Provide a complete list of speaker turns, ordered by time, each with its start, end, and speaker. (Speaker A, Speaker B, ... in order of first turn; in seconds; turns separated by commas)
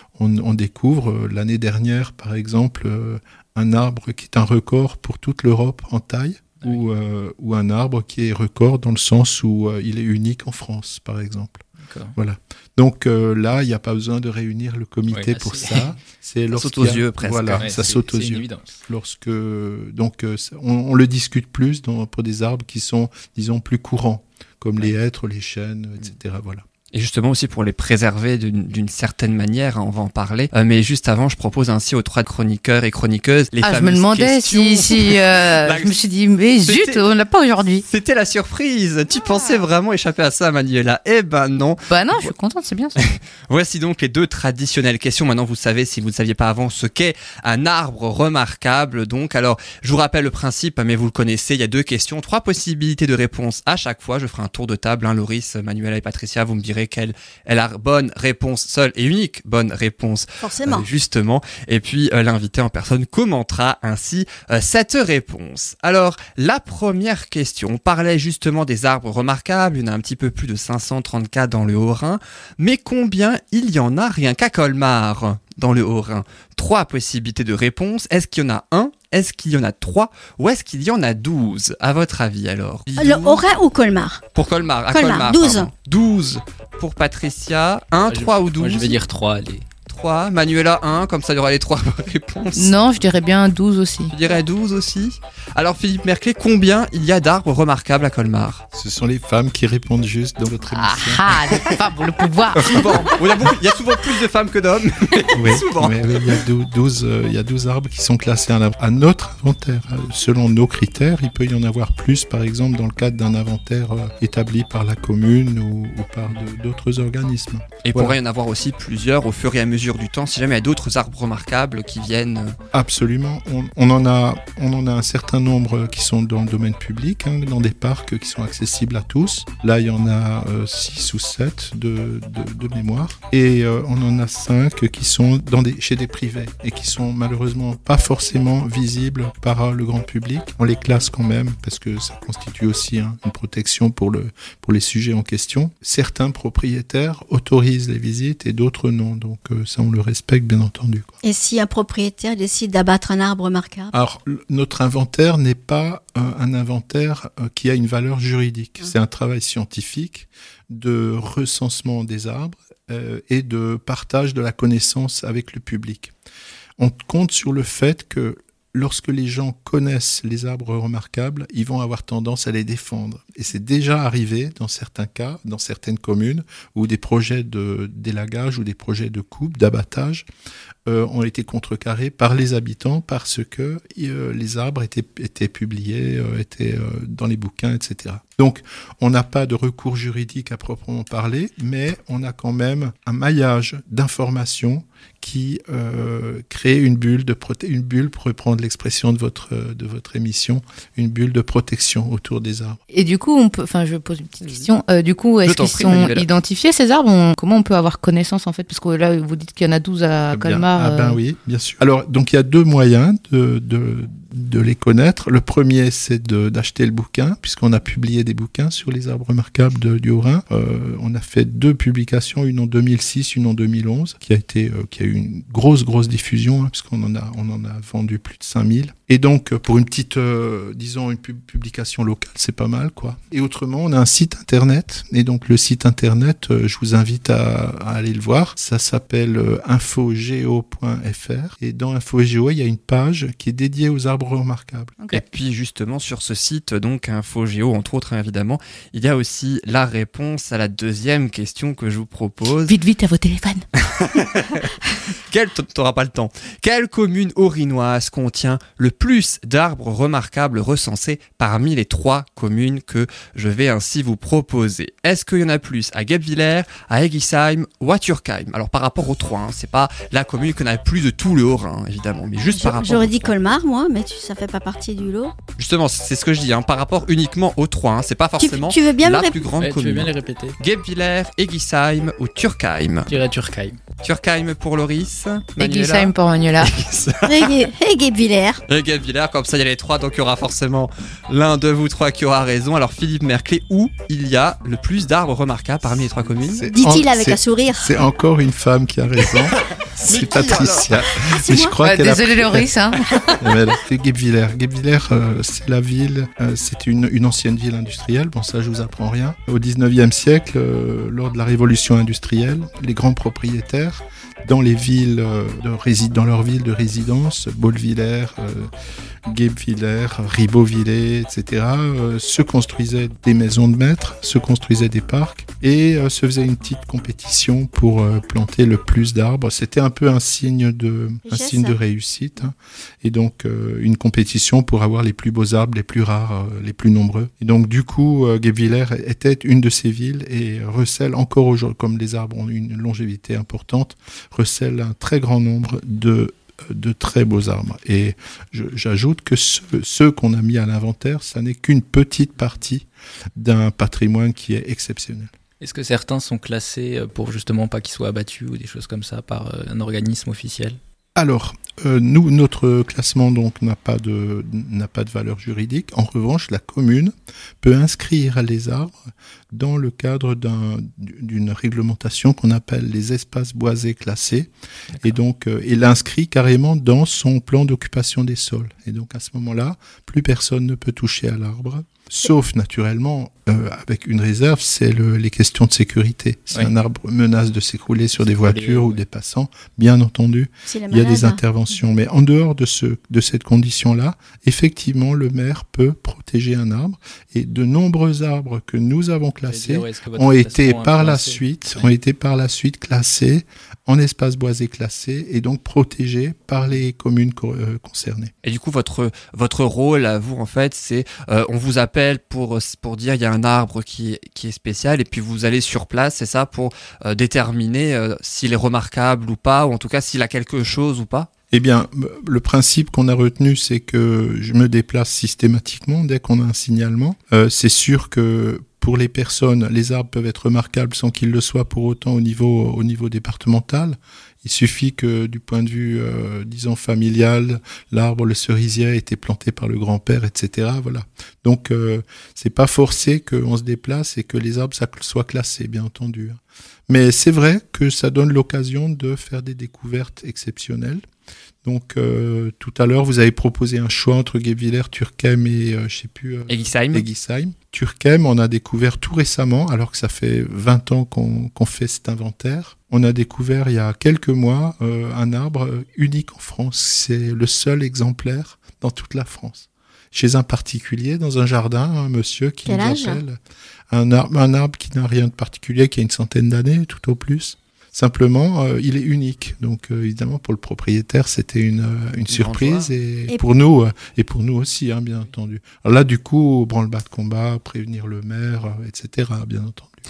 Speaker A: 0.1-26.6, Speaker B: 11.8-12.2, Speaker B: 15.1-15.9, Speaker C: 16.5-17.8, Speaker B: 17.5-18.8, Speaker C: 26.9-36.0, Speaker D: 33.6-37.8, Speaker C: 36.6-37.0, Speaker C: 37.9-42.3, Speaker D: 39.2-39.5, Speaker D: 41.9-43.0, Speaker C: 43.0-83.4, Speaker E: 60.4-60.9, Speaker E: 83.0-84.2, Speaker C: 84.3-89.0, Speaker E: 84.9-85.7, Speaker B: 88.1-89.7, Speaker C: 89.9-92.8, Speaker D: 92.5-94.1, Speaker C: 94.1-98.6, Speaker A: 98.7-101.3, Speaker D: 100.7-103.1, Speaker C: 102.5-106.1, Speaker A: 105.3-118.2, Speaker C: 117.8-122.6, Speaker A: 122.7-151.1, Speaker E: 151.2-153.9, Speaker A: 153.9-166.1, Speaker A: 166.8-180.3, Speaker A: 180.8-202.8, Speaker D: 202.9-211.2, Speaker C: 205.4-206.3, Speaker A: 210.3-244.9, Speaker D: 245.0-245.3, Speaker C: 245.1-252.8, Speaker D: 252.7-253.7, Speaker C: 253.8-254.7, Speaker C: 255.3-273.3, Speaker E: 272.5-275.3, Speaker C: 275.6-283.1, Speaker E: 278.4-279.5, Speaker B: 279.6-280.6, Speaker B: 283.1-283.8, Speaker C: 284.0-287.5, Speaker D: 285.6-286.7, Speaker E: 287.2-288.6, Speaker C: 288.7-296.7, Speaker A: 296.5-302.7, Speaker E: 296.7-297.9, Speaker C: 300.0-300.9, Speaker E: 301.2-301.8, Speaker D: 301.8-303.4, Speaker A: 303.4-318.7, Speaker A: 319.2-355.3, Speaker E: 331.3-331.8, Speaker B: 355.6-360.8, Speaker A: 361.1-369.0, Speaker A: 369.5-374.5, Speaker A: 375.0-408.3, Speaker B: 388.2-389.0, Speaker E: 390.7-391.4, Speaker B: 399.5-401.9, Speaker C: 408.4-421.3, Speaker A: 421.5-451.0, Speaker A: 451.6-473.4, Speaker C: 456.5-457.1, Speaker E: 472.6-473.2, Speaker A: 473.9-489.9, Speaker C: 482.3-482.9